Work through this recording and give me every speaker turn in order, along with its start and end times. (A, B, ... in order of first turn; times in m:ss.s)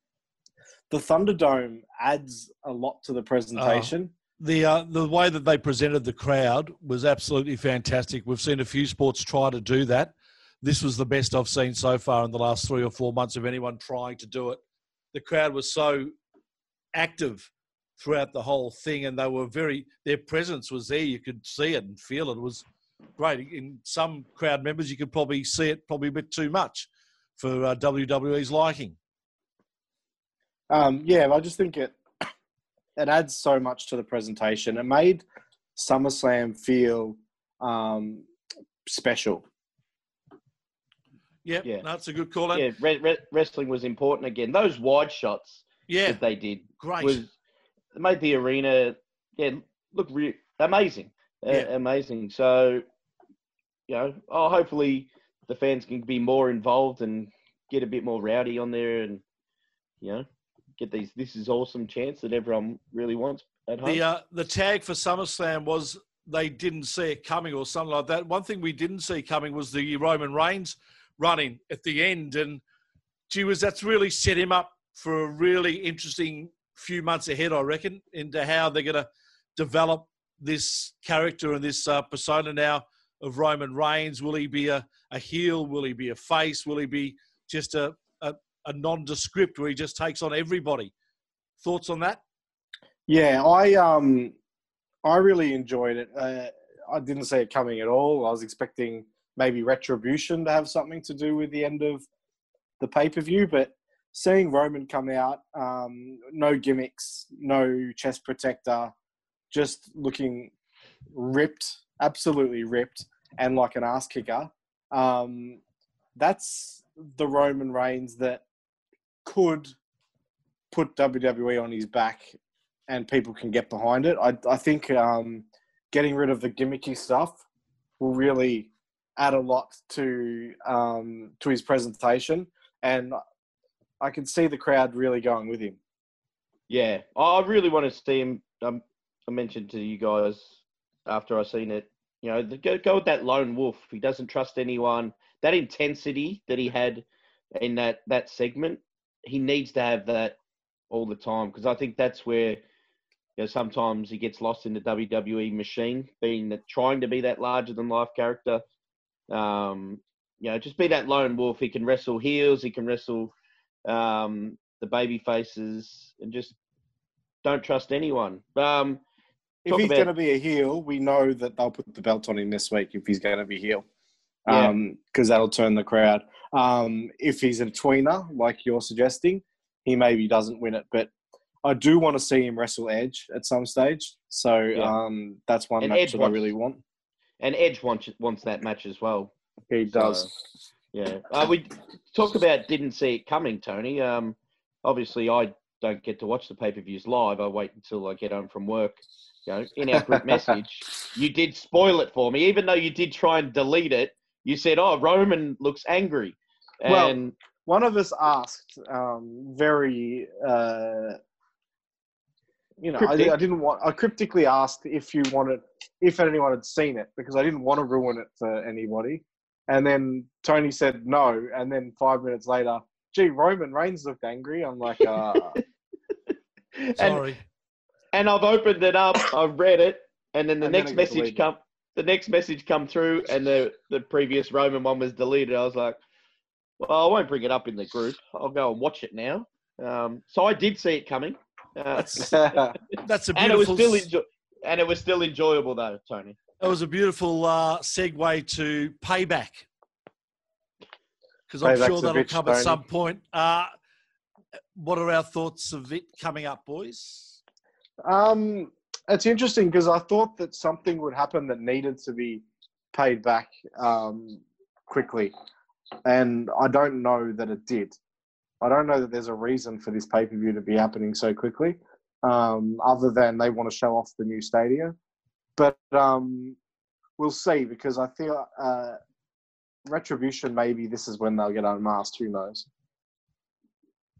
0:00.9-0:04.1 A
0:03.6-0:14.6 B
0:15.1-0:16.1 B
0:16.9-0:22.6 B
0:23.2-0:29.0 B
0:30.7-0:32.0 A
0:33.0-0:35.2 A
0:35.8-0:38.2 A
0:38.8-0:39.4 A
0:41.4-0:42.6 B
0:42.5-0:47.3 C
0:45.9-0:46.2 B
0:46.8-0:47.2 B
0:47.9-0:52.8 C
0:53.9-0:59.2 C
1:00.8-1:04.0 C
1:03.8-1:12.6 B
1:13.3-1:30.9 B
1:31.6-1:32.2 B
1:33.1-1:34.3 A
1:35.0-1:42.0 A
1:42.8-1:48.9 A
1:49.5-1:50.5 A
1:51.1-1:55.6 A
1:56.2-1:58.4 A
1:59.2-1:59.7 A
2:00.7-2:07.4 A
2:08.0-2:13.2 A
2:14.0-2:15.8 A
2:16.7-2:27.0 C
2:27.6-2:30.4 C
2:30.9-2:32.6 C
2:33.4-2:38.6 C
2:39.3-2:43.3 C
2:43.8-2:46.6 C
2:47.4-2:49.0 C
2:49.6-2:53.8 A
2:49.7-2:50.1 C
2:54.4-3:01.1 A
2:54.5-2:54.7 C
3:01.6-3:06.8 A
3:05.8-3:06.5 C
3:07.4-3:09.3 C
3:09.7-3:10.3 A
3:09.9-3:10.3 C
3:10.9-3:27.3 C
3:26.8-3:31.2 A
3:32.8-3:45.6 A
3:33.0-3:33.4 C
3:46.8-3:47.2 C
3:47.0-3:47.4 B
3:48.1-3:56.0 C
3:50.6-3:51.4 A
3:56.8-4:06.4 C
4:02.1-4:02.8 A
4:03.0-4:04.1 B
4:06.6-4:09.6 B
4:11.5-4:13.7 B
4:11.6-4:12.8 A
4:14.8-4:17.4 B
4:18.0-4:25.3 A
4:26.0-4:28.0 A
4:28.6-4:35.0 A
4:35.6-4:36.6 A
4:37.2-4:39.0 A
4:39.9-4:42.7 A